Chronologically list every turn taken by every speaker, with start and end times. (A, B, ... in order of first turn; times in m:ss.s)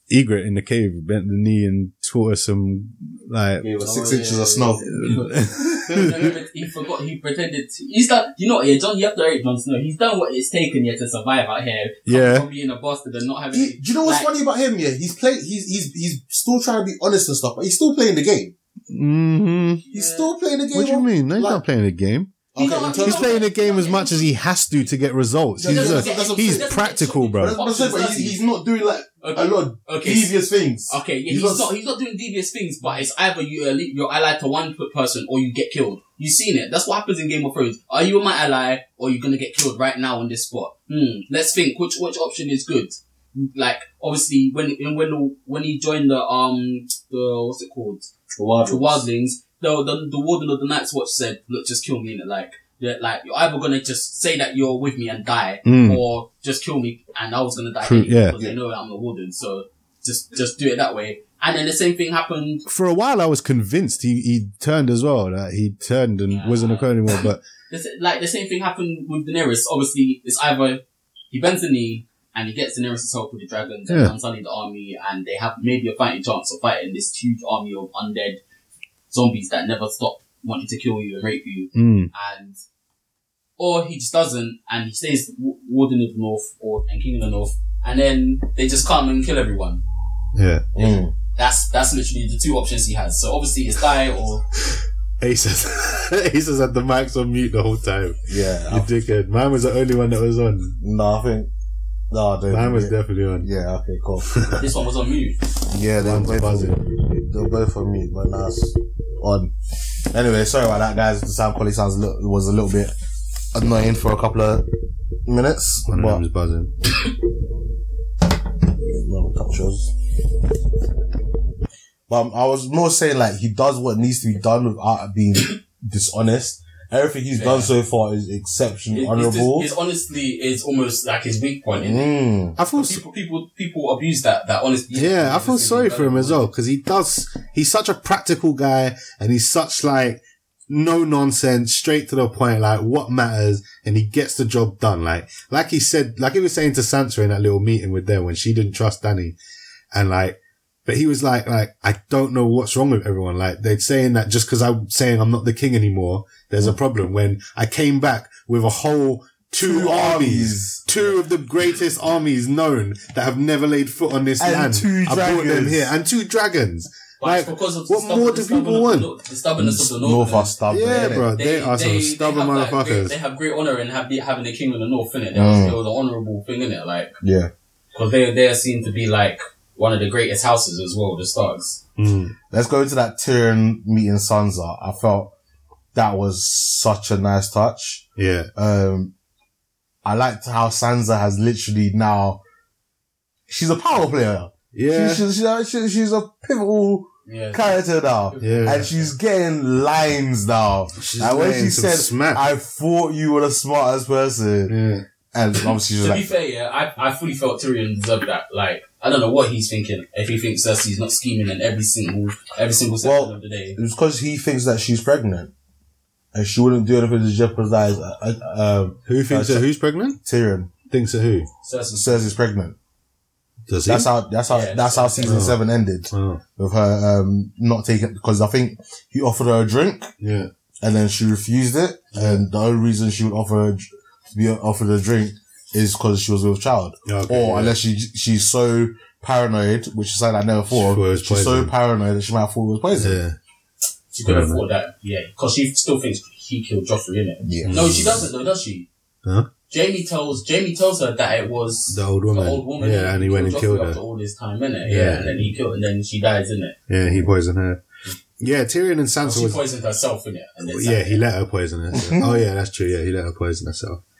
0:00.1-0:03.6 A
0:03.6-0:05.2 B
0:03.8-0:14.3 C
0:04.9-0:06.3 A
0:05.9-0:06.2 B
0:12.1-0:12.5 A
0:13.5-0:18.5 B
0:18.9-0:19.8 A
0:19.8-0:20.3 C
0:19.9-0:21.6 B
0:20.7-0:22.3 A
0:22.5-0:23.4 B
0:22.6-0:24.3 C
0:23.0-0:27.6 A
0:25.6-0:26.7 B
0:25.6-0:28.4 C
0:27.4-0:31.7 B
0:29.2-0:30.3 C
0:30.9-0:48.1 C
0:48.4-0:49.0 B
0:48.6-1:02.7 C
0:55.6-0:56.0 A
0:57.8-0:58.4 A
1:02.7-1:07.4 A
1:06.3-1:18.4 C
1:13.9-1:14.1 A
1:19.1-1:22.6 C
1:21.7-1:22.1 A
1:23.6-1:29.8 C
1:30.3-1:30.7 A
1:30.8-1:31.1 B
1:30.8-1:34.4 C
1:34.7-1:40.8 A
1:38.3-1:38.9 B
1:40.8-1:41.5 B
1:42.1-1:44.3 B
1:42.5-1:43.5 A
1:44.3-1:44.6 A
1:44.5-1:45.4 C
1:45.7-1:49.5 B
1:46.0-1:46.8 A
1:50.1-1:52.9 B
1:53.5-1:54.6 B
1:55.2-1:56.2 B
1:55.9-1:56.7 A
1:58.6-2:00.0 B
2:02.1-2:09.7 B
2:07.3-2:07.7 C
2:08.9-2:12.1 C
2:11.8-2:12.6 B
2:12.6-2:13.0 A
2:12.7-2:16.5 C
2:14.9-2:29.4 A
2:29.9-2:49.1 A
2:39.6-2:40.8 B
2:44.4-2:45.9 B
2:47.2-2:57.2 C
2:49.6-2:51.3 B
2:50.7-2:53.1 A
2:55.3-2:55.8 B
2:57.2-2:57.5 B
2:57.9-3:01.8 C
3:02.0-3:02.3 A
3:02.5-3:05.3 B
3:05.9-3:08.0 B
3:08.2-3:08.5 A
3:08.6-3:09.1 B
3:10.0-3:12.4 B
3:13.5-3:24.8 B
3:14.7-3:15.2 A
3:17.3-3:19.1 C
3:18.4-3:18.9 A
3:21.0-3:22.5 A
3:24.7-3:25.0 A
3:25.3-3:26.3 B
3:26.0-3:33.8 C
3:33.0-3:35.5 B
3:36.3-3:39.7 B
3:39.1-3:40.2 A
3:40.2-3:40.7 B
3:40.9-3:41.5 A
3:41.6-3:42.3 C
3:42.0-3:42.8 B
3:43.7-3:44.1 A
3:43.9-3:50.1 B
3:44.5-3:45.4 C
3:45.2-3:45.6 A
3:46.1-3:46.4 A
3:50.2-3:50.5 A
3:50.8-4:03.2 B
3:52.2-3:52.5 A
3:57.1-3:57.8 A
4:00.7-4:01.7 A
4:03.0-4:03.4 A
4:04.1-4:08.9 C
4:04.2-4:04.6 A
4:07.4-4:08.1 B
4:07.6-4:08.2 A
4:09.7-4:16.8 C
4:11.9-4:14.0 A
4:14.8-4:15.6 A
4:16.9-4:17.8 A
4:17.0-4:17.3 B
4:18.4-4:19.6 A
4:19.2-4:21.2 C
4:20.7-4:24.0 A
4:21.9-4:22.4 B